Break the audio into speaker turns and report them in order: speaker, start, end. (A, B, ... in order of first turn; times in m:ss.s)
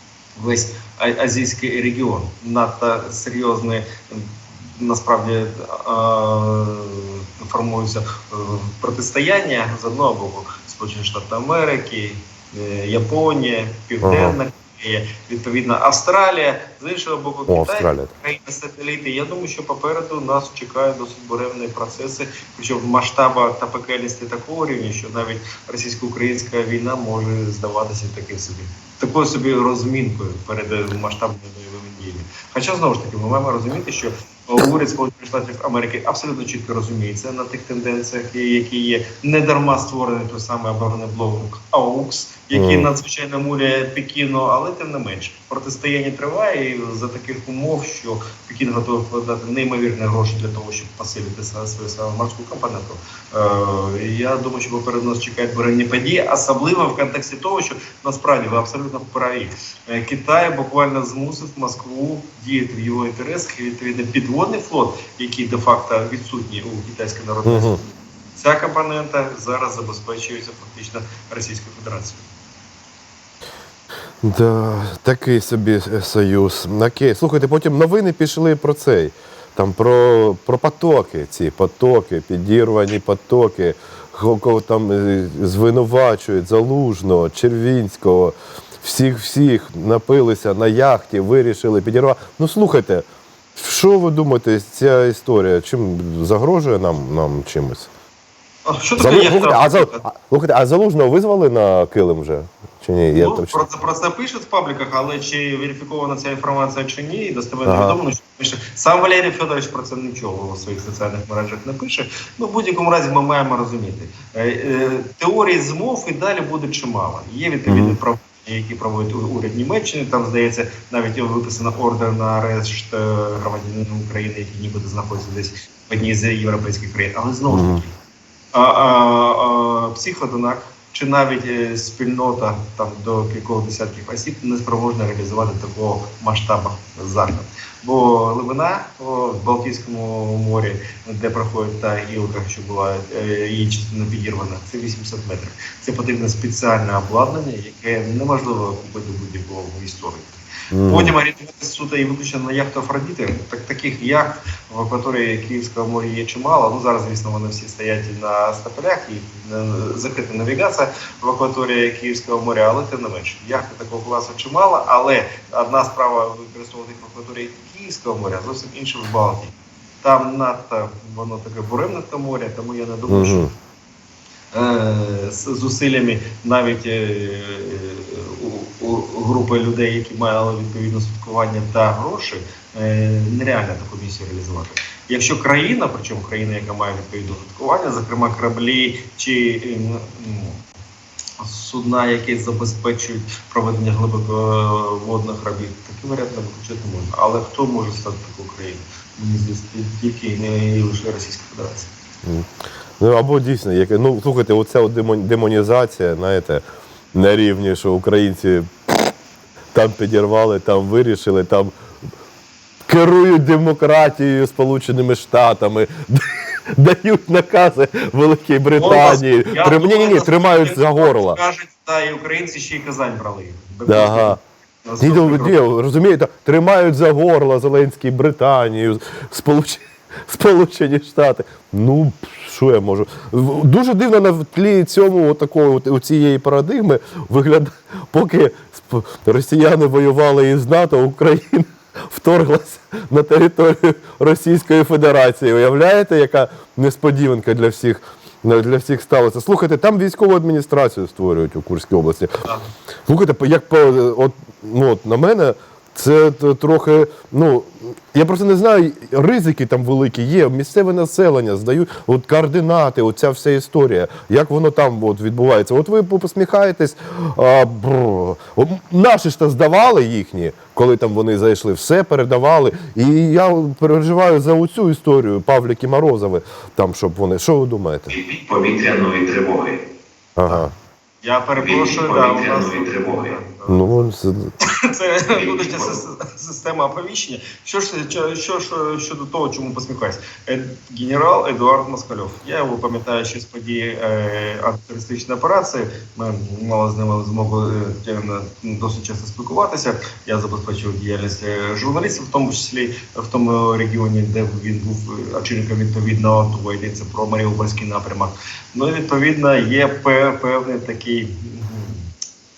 0:00.4-1:07.8 A
0:14.0-0:14.4 B
0:17.5-0:18.1 B
0:42.5-0:42.9 B
1:07.4-1:07.8 B
1:08.4-1:12.3 A
1:14.2-1:33.0 B
1:33.6-1:37.9 B
1:38.7-1:40.0 A
1:39.0-1:43.6 B
1:43.2-2:07.9 A
1:47.7-1:48.0 B
1:57.7-1:58.0 B
2:07.5-2:07.8 B
2:08.5-2:53.5 A
2:30.7-2:31.1 B
2:53.1-2:53.5 B
2:54.5-3:10.6 A
3:11.4-3:21.9 A
3:22.2-3:29.1 B
3:29.7-3:31.7 B
3:32.9-3:41.4 B
3:38.8-3:45.6 A
3:43.9-3:44.4 B
3:45.0-4:12.3 B
4:13.1-4:38.1 B
4:38.1-4:39.8 C
4:40.4-4:40.7 B
4:41.2-4:44.1 A
4:41.6-4:43.4 C
4:43.7-4:44.5 B
4:44.6-5:12.1 A
4:45.3-4:46.0 C